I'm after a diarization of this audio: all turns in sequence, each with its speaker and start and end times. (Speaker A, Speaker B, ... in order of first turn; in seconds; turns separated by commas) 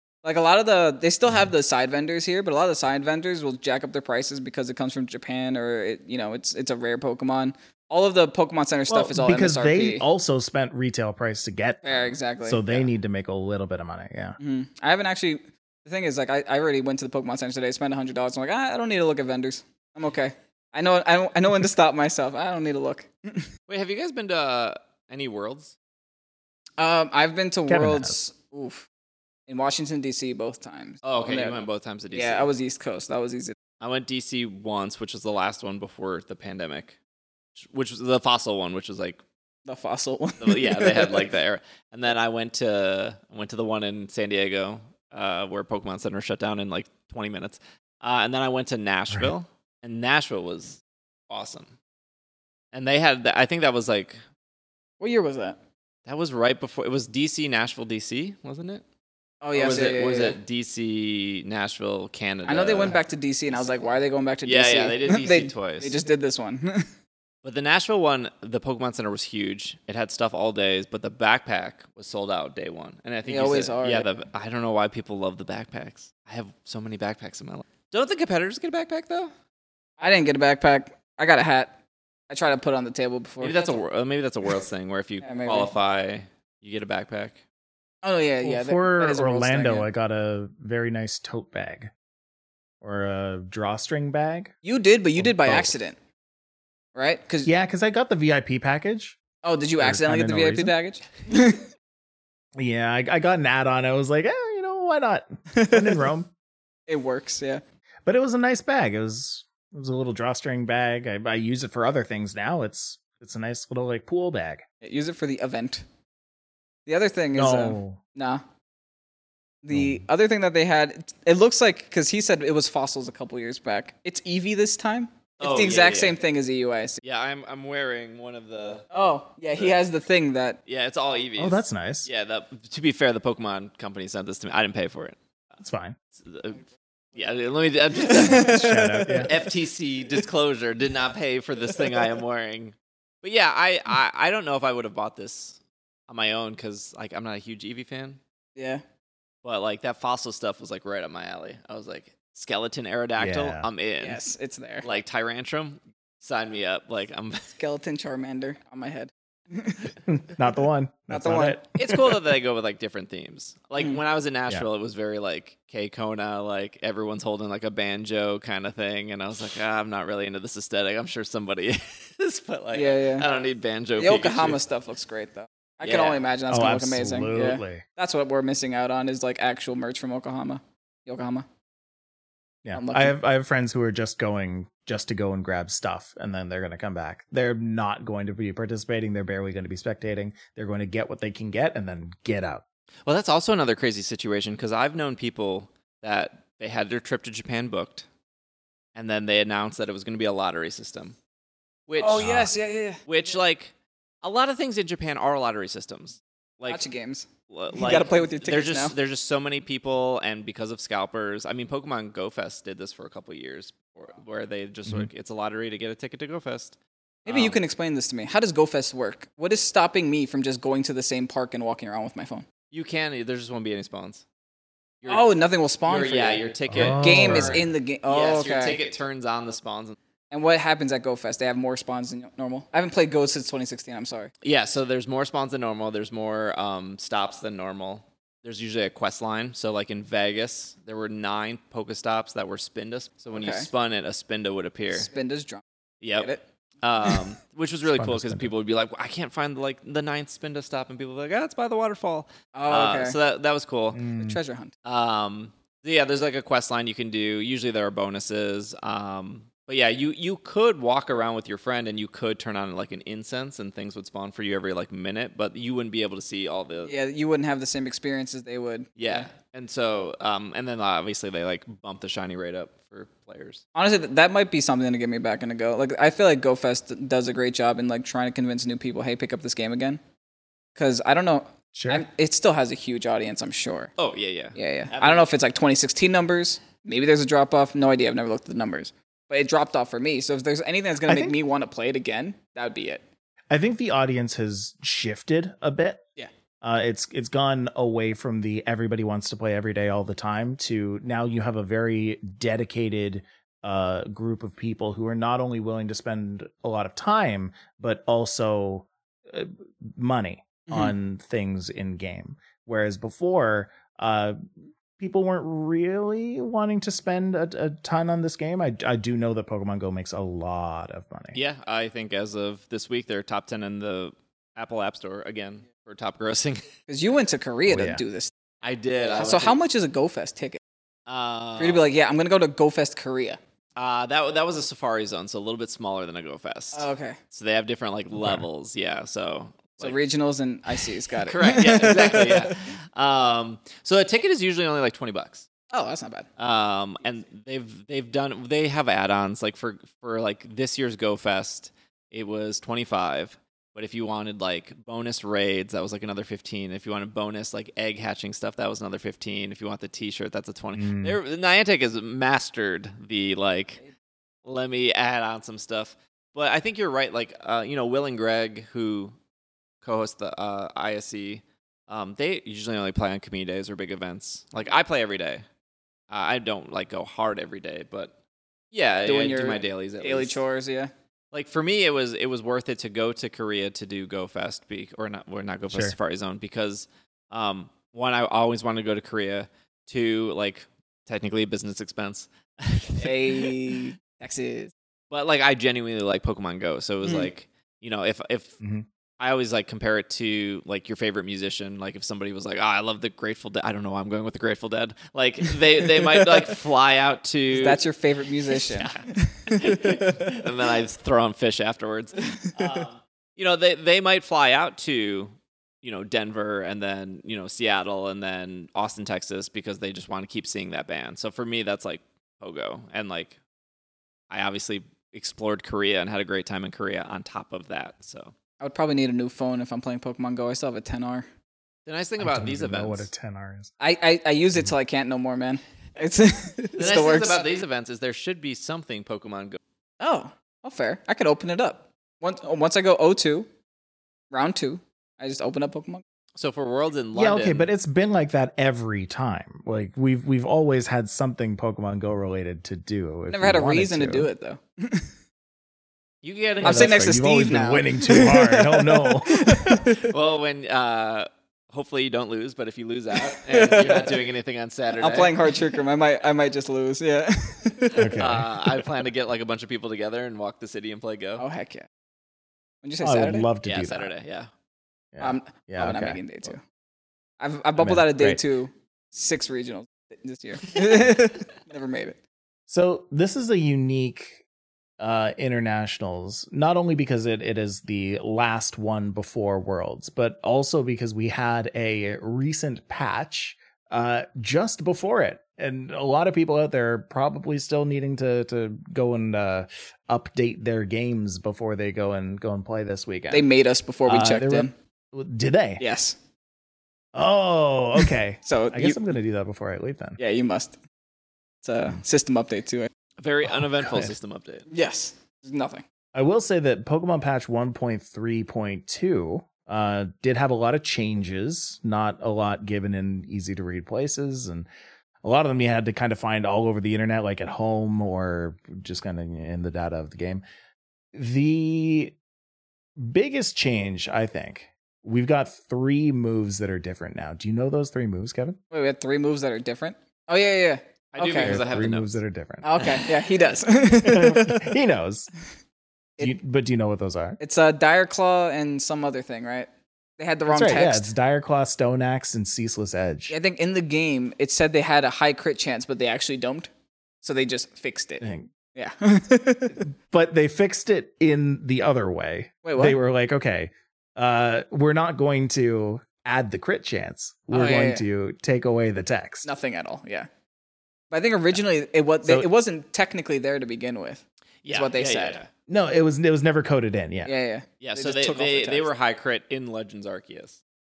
Speaker A: 0.2-10.0, Speaker B: 8.9-14.4, Speaker A: 11.8-12.8, Speaker A: 14.4-23.5, Speaker C: 23.7-25.7, Speaker A: 26.8-28.9, Speaker B: 27.7-28.1, Speaker A: 29.5-31.6, Speaker C: 31.0-32.5, Speaker A: 32.1-33.5, Speaker C: 33.8-37.0, Speaker C: 37.5-39.2, Speaker A: 39.6-41.3, Speaker C: 40.4-51.7, Speaker C: 52.7-54.2, Speaker A: 55.0-55.6, Speaker C: 56.0-58.8, Speaker A: 59.4-60.4, Speaker C: 59.5-63.0, Speaker A: 62.5-66.9, Speaker C: 64.4-66.0, Speaker C: 67.4-79.3, Speaker A: 73.2-74.1, Speaker A: 80.0-81.8, Speaker A: 82.3-83.8, Speaker C: 83.4-87.4, Speaker A: 85.2-85.7, Speaker A: 88.0-89.9, Speaker B: 88.4-91.9, Speaker B: 92.8-94.5, Speaker A: 94.6-96.0, Speaker B: 95.2-95.7, Speaker A: 96.9-97.5, Speaker B: 97.4-99.2, Speaker A: 99.4-101.7, Speaker B: 99.8-100.7, Speaker B: 102.6-106.3, Speaker A: 105.5-106.0, Speaker A: 106.9-107.6, Speaker B: 108.0-114.6, Speaker A: 114.8-115.8, Speaker A: 116.8-118.4, Speaker B: 117.3-118.0, Speaker A: 119.6-127.0, Speaker B: 119.7-120.0, Speaker C: 125.4-126.2, Speaker C: 127.0-128.9, Speaker A: 128.9-130.6, Speaker C: 130.7-135.2, Speaker B: 131.4-132.1, Speaker B: 135.6-136.0, Speaker C: 136.2-136.6, Speaker C: 137.1-148.2, Speaker A: 138.0-139.5, Speaker B: 138.4-139.3, Speaker A: 148.6-148.8, Speaker C: 149.4-154.2, Speaker B: 153.2-153.7, Speaker A: 154.0-154.8, Speaker C: 154.8-157.6, Speaker A: 157.6-159.9, Speaker B: 160.1-162.2, Speaker A: 161.1-161.6, Speaker C: 161.8-174.6, Speaker A: 172.7-173.3, Speaker A: 174.0-181.4, Speaker C: 175.8-176.2, Speaker B: 176.5-177.8, Speaker B: 182.6-192.6, Speaker A: 182.7-183.1, Speaker C: 193.0-198.1, Speaker C: 198.9-201.2, Speaker C: 201.9-202.5, Speaker A: 202.0-203.0, Speaker B: 202.2-202.5, Speaker C: 203.1-206.8, Speaker A: 206.7-208.9, Speaker C: 207.5-217.6, Speaker A: 217.2-222.4, Speaker C: 222.7-224.2, Speaker C: 225.0-225.3, Speaker A: 225.1-228.8, Speaker C: 225.8-230.0, Speaker B: 226.7-227.6, Speaker A: 230.3-234.3, Speaker C: 234.4-245.1, Speaker A: 243.4-243.7, Speaker A: 244.9-245.6, Speaker C: 246.0-254.0, Speaker A: 246.2-246.4, Speaker B: 247.8-248.5, Speaker A: 252.5-253.2, Speaker B: 253.9-254.4, Speaker A: 254.2-254.7, Speaker C: 254.8-266.9, Speaker A: 266.8-269.3, Speaker C: 269.0-273.6, Speaker A: 273.7-280.0, Speaker A: 280.7-283.9, Speaker B: 281.7-282.0, Speaker C: 284.0-285.3, Speaker A: 284.6-293.0, Speaker B: 291.0-291.4, Speaker B: 293.5-296.0, Speaker B: 296.6-314.4, Speaker A: 310.7-310.9, Speaker B: 315.0-321.4, Speaker C: 321.3-326.7, Speaker A: 326.9-328.3, Speaker B: 327.7-328.0, Speaker C: 328.6-329.6, Speaker A: 329.2-330.6, Speaker C: 331.1-331.8, Speaker A: 331.6-333.4, Speaker C: 333.8-340.0, Speaker A: 336.7-337.2, Speaker B: 338.1-338.4, Speaker A: 339.8-342.5, Speaker C: 341.2-345.5, Speaker A: 345.7-346.3, Speaker C: 346.4-363.8, Speaker B: 360.8-361.2, Speaker C: 364.4-369.1, Speaker C: 369.8-375.4, Speaker C: 376.1-378.1, Speaker C: 378.7-380.4, Speaker A: 379.1-380.9, Speaker C: 381.3-393.5, Speaker B: 385.7-385.9, Speaker A: 393.0-394.7, Speaker C: 395.1-398.6, Speaker A: 397.0-397.3, Speaker B: 398.6-398.9, Speaker C: 399.2-407.8, Speaker A: 407.5-410.4, Speaker C: 408.5-423.4, Speaker A: 412.4-412.7, Speaker C: 424.3-428.3, Speaker A: 428.6-431.3, Speaker C: 431.9-433.1, Speaker B: 432.2-433.7, Speaker A: 433.8-437.4, Speaker C: 436.8-439.6, Speaker A: 440.0-443.5, Speaker A: 444.3-446.0, Speaker C: 446.4-447.7, Speaker B: 447.1-454.3, Speaker A: 453.3-455.1, Speaker C: 456.2-457.1, Speaker A: 456.6-460.1, Speaker B: 456.6-459.8, Speaker C: 459.8-465.6, Speaker A: 463.1-464.2, Speaker A: 465.0-468.2, Speaker B: 468.0-468.5, Speaker C: 468.1-471.4, Speaker A: 471.4-471.9, Speaker A: 472.8-473.5, Speaker B: 473.0-474.1, Speaker C: 473.6-474.5, Speaker B: 475.1-476.2, Speaker A: 475.2-476.6, Speaker A: 477.4-482.2, Speaker B: 477.8-478.4, Speaker B: 482.7-484.4, Speaker B: 485.0-503.4, Speaker A: 503.3-504.7, Speaker B: 504.1-505.8, Speaker A: 505.8-506.2, Speaker B: 507.1-510.2, Speaker A: 508.4-509.0, Speaker A: 510.2-510.8, Speaker A: 511.6-512.9, Speaker C: 513.2-514.6, Speaker B: 513.5-514.1, Speaker A: 514.7-515.8, Speaker B: 516.1-524.7, Speaker B: 525.2-530.4, Speaker B: 531.1-532.1, Speaker B: 533.0-538.6, Speaker A: 538.7-541.6, Speaker C: 541.1-542.1, Speaker B: 541.4-542.6, Speaker A: 542.6-544.8, Speaker B: 544.0-545.3, Speaker B: 546.2-547.4, Speaker A: 547.4-551.1, Speaker B: 550.5-553.3, Speaker A: 553.3-556.7, Speaker A: 557.2-559.8, Speaker B: 558.2-558.5, Speaker B: 559.9-569.5, Speaker A: 562.6-563.0, Speaker A: 567.5-568.0, Speaker A: 569.4-570.3, Speaker A: 571.1-575.4, Speaker C: 574.6-575.5, Speaker B: 575.7-577.3, Speaker A: 577.2-578.9, Speaker C: 577.8-580.6